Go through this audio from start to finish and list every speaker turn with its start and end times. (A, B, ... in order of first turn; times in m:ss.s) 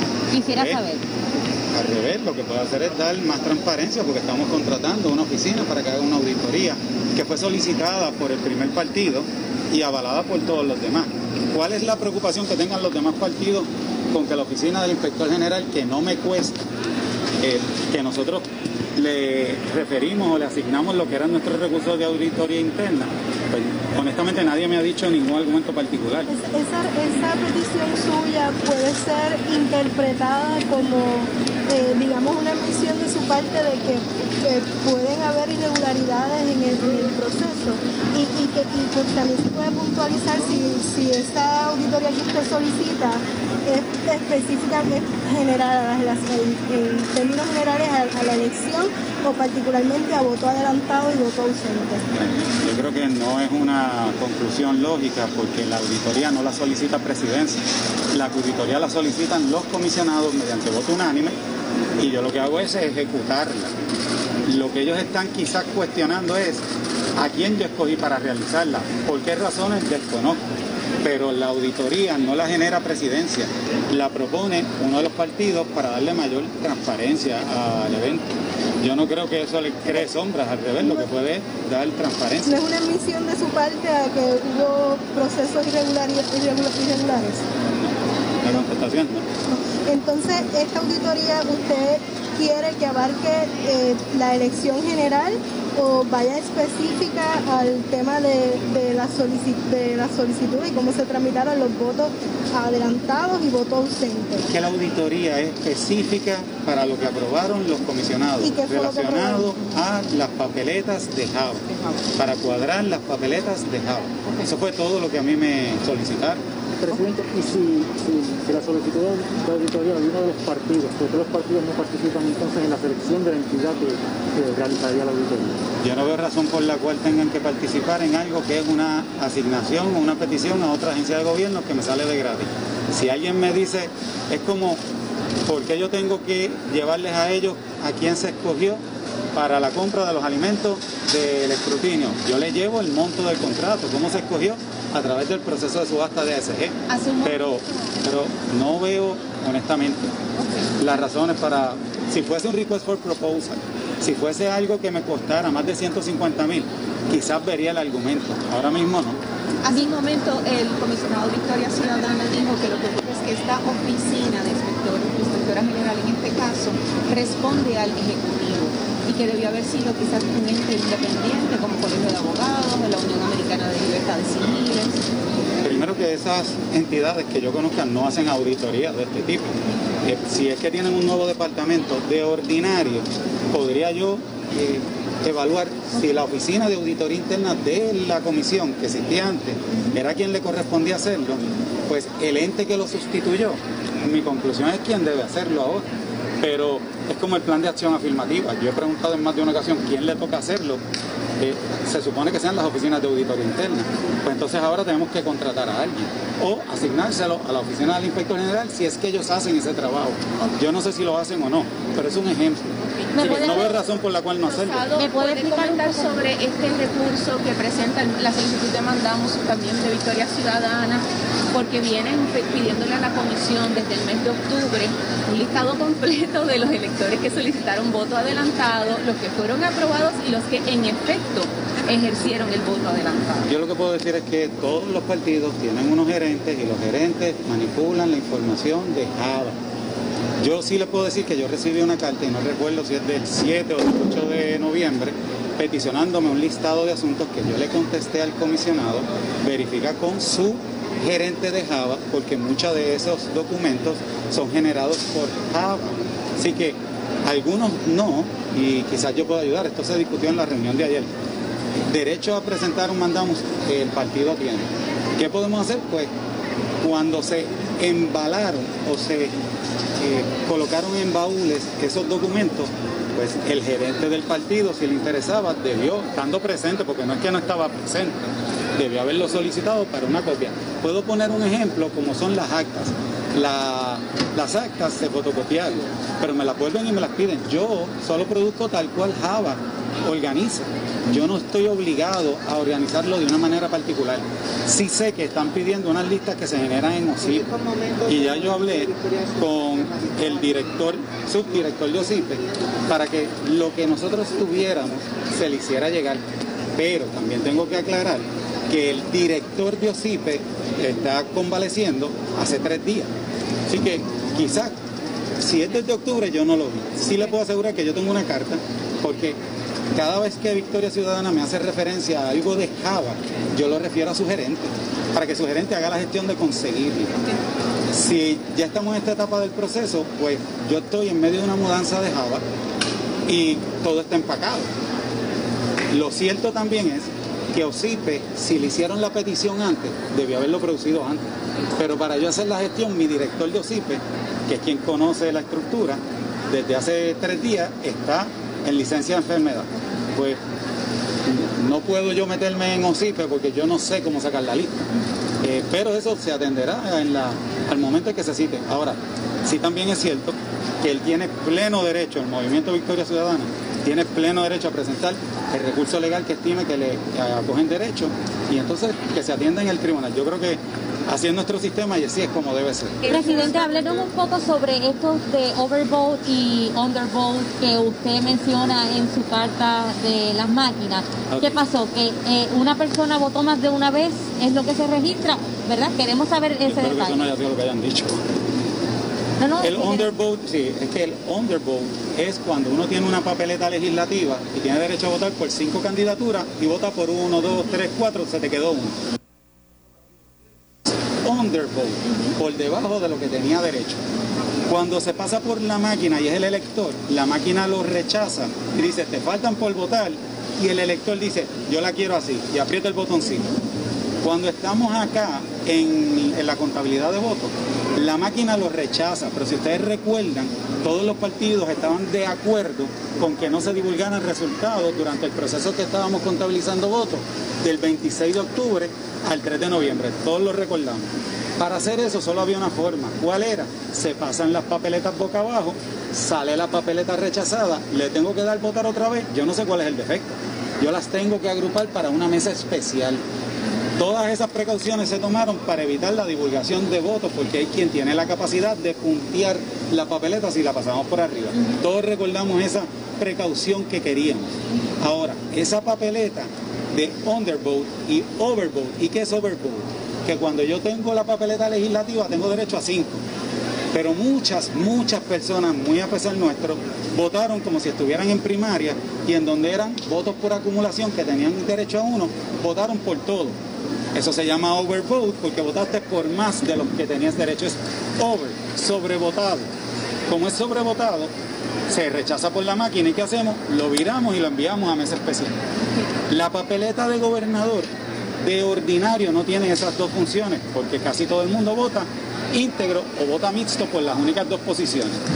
0:00.3-0:01.0 A
0:00.5-0:00.8 B
0:01.7-0:16.6 B
0:17.4-0:18.4 B
0:19.0-0:26.3 B
0:26.3-0:52.0 C
0:52.1-1:01.4 B
1:02.0-1:03.7 B
1:04.5-1:06.6 B
1:07.2-1:10.4 B
1:11.0-1:18.2 B
1:18.8-1:22.6 B
1:20.8-1:21.1 C
1:22.5-1:27.4 C
1:27.7-1:29.2 B
1:29.5-1:44.5 C
1:44.5-1:56.4 B
1:48.4-1:49.6 C
1:56.8-2:05.6 D
2:05.8-2:14.8 B
2:15.5-2:18.8 B
2:19.4-2:30.1 B
2:26.9-2:27.6 E
2:30.4-2:30.7 E
2:30.8-2:39.2 B
2:39.6-2:55.0 E
2:55.6-3:15.8 B
3:16.4-3:20.8 B
3:21.4-3:34.9 B
3:32.8-3:33.8 E
3:33.1-3:33.7 A
3:34.4-3:53.5 E
3:35.0-3:36.3 A
3:53.5-3:59.6 B
4:00.4-4:21.1 B
4:21.9-4:26.1 B
4:26.8-4:29.3 B
4:30.0-4:38.2 B
4:38.8-4:57.5 B
4:58.0-5:06.2 B
5:06.8-5:13.1 B
5:13.7-5:14.7 B
5:15.4-5:19.4 B
5:19.9-5:27.2 B
5:27.9-5:32.4 B
5:33.3-5:34.7 B
5:35.9-5:50.4 B
5:51.3-5:54.8 B
5:55.4-6:13.0 B
6:13.0-6:14.0 E
6:13.1-6:27.3 A
6:21.3-6:21.6 B
6:26.7-6:28.2 B
6:29.4-6:30.1 A
6:29.6-6:39.0 B
6:41.2-6:44.0 B
6:44.7-6:53.5 B
6:54.2-7:23.2 B
7:24.0-7:43.2 B
7:43.9-7:53.6 B
7:54.2-7:59.7 B
8:00.3-8:01.3 B
8:01.9-8:05.5 B
8:06.3-8:07.9 B
8:08.4-8:15.2 B